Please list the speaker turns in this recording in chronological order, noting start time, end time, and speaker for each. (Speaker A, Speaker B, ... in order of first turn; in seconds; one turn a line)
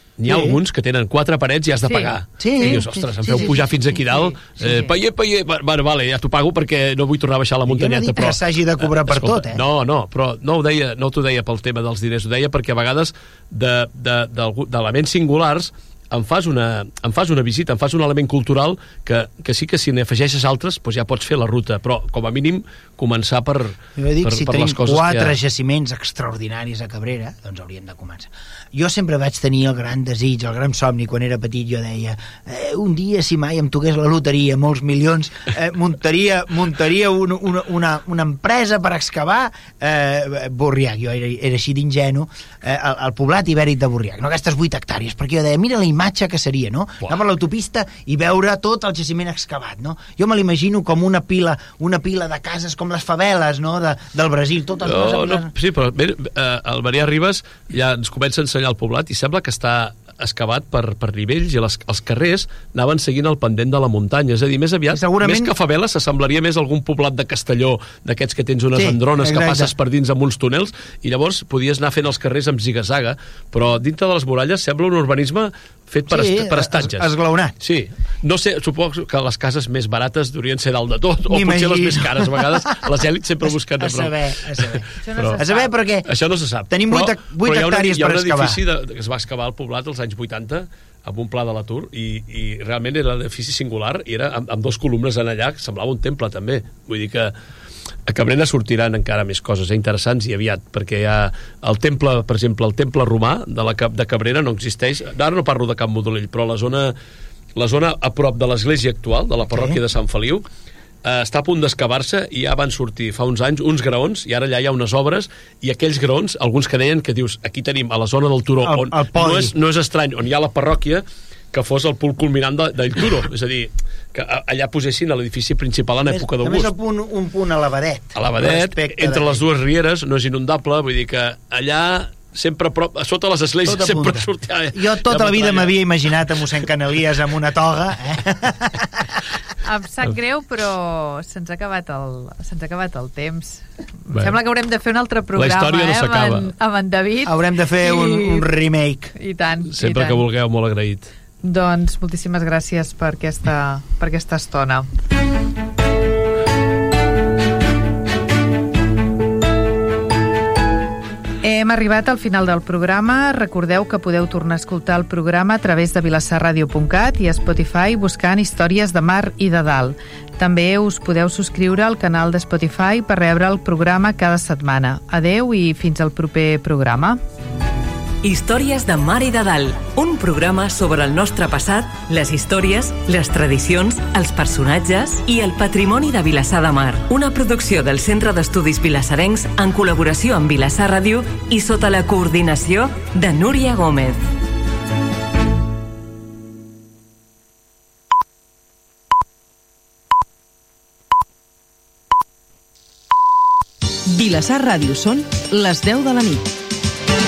Speaker A: 0.2-25.3
Speaker B: 0.2-0.6
Speaker C: 1.9-2.8
Speaker B: 2.4-4.0
Speaker B: 7.7-9.6
Speaker B: 24.0-55.5
Speaker A: 54.8-85.4
Speaker B: 64.9-65.5
Speaker B: 68.7-69.7
Speaker B: 76.1-77.5
Speaker B: 81.3-82.9
Speaker B: 83.4-86.1
Speaker C: 85.0-85.7
Speaker A: 86.0-97.3
Speaker B: 86.7-88.6
Speaker A: 98.1-106.9
Speaker A: 107.5-110.4
Speaker B: 109.5-109.8
Speaker A: 111.0-126.7
Speaker B: 118.6-119.5
Speaker B: 126.1-129.4
Speaker A: 128.1-135.8
Speaker B: 133.6-139.2
Speaker C: 139.6-148.5
Speaker A: 145.3-146.5
Speaker B: 147.2-149.1
Speaker C: 149.2-150.2
Speaker A: 149.7-151.1
Speaker C: 151.4-154.9
Speaker C: 161.4-177.2
Speaker D: 178.2-194.2
Speaker E: 204.1-206.5